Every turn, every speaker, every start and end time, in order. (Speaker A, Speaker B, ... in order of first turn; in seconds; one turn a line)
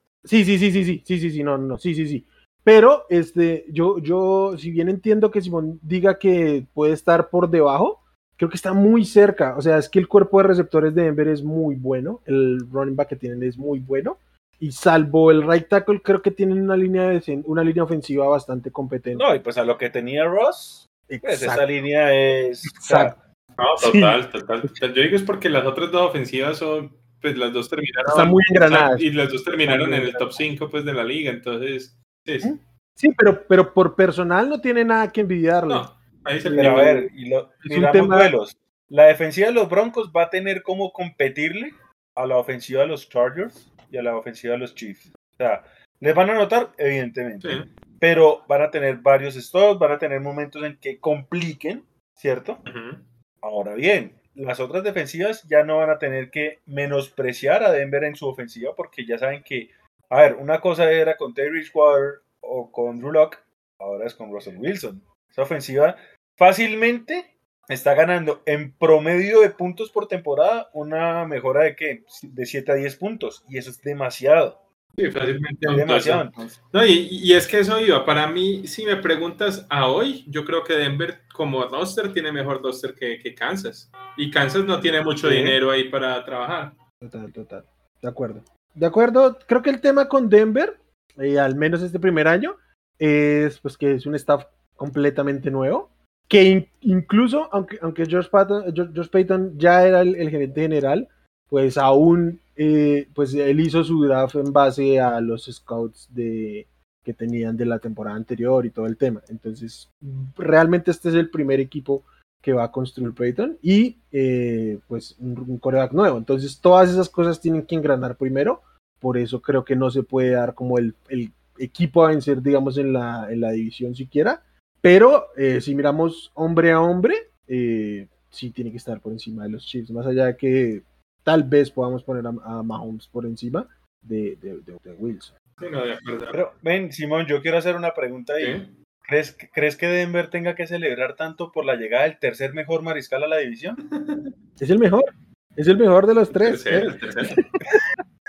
Speaker A: 0.2-19.3
Speaker B: 19.1-23.1
Speaker A: 21.1-21.6
Speaker A: 22.7-23.1
Speaker C: 23.6-32.5
Speaker A: 23.8-24.1
Speaker A: 28.1-29.1
Speaker A: 29.6-30.5
Speaker A: 32.4-35.9
Speaker C: 35.7-36.9
Speaker A: 36.4-37.1
Speaker B: 36.6-52.6
Speaker A: 37.6-38.3
Speaker C: 47.4-47.7
Speaker C: 52.6-53.1
Speaker B: 53.4-74.6
Speaker C: 75.0-86.8
Speaker B: 75.7-76.5
Speaker B: 85.2-85.6
Speaker A: 87.0-135.3
Speaker C: 135.6-136.4
Speaker B: 136.3-143.8
Speaker C: 138.4-138.7
Speaker C: 143.9-144.3
Speaker A: 144.6-147.8
Speaker C: 146.3-147.4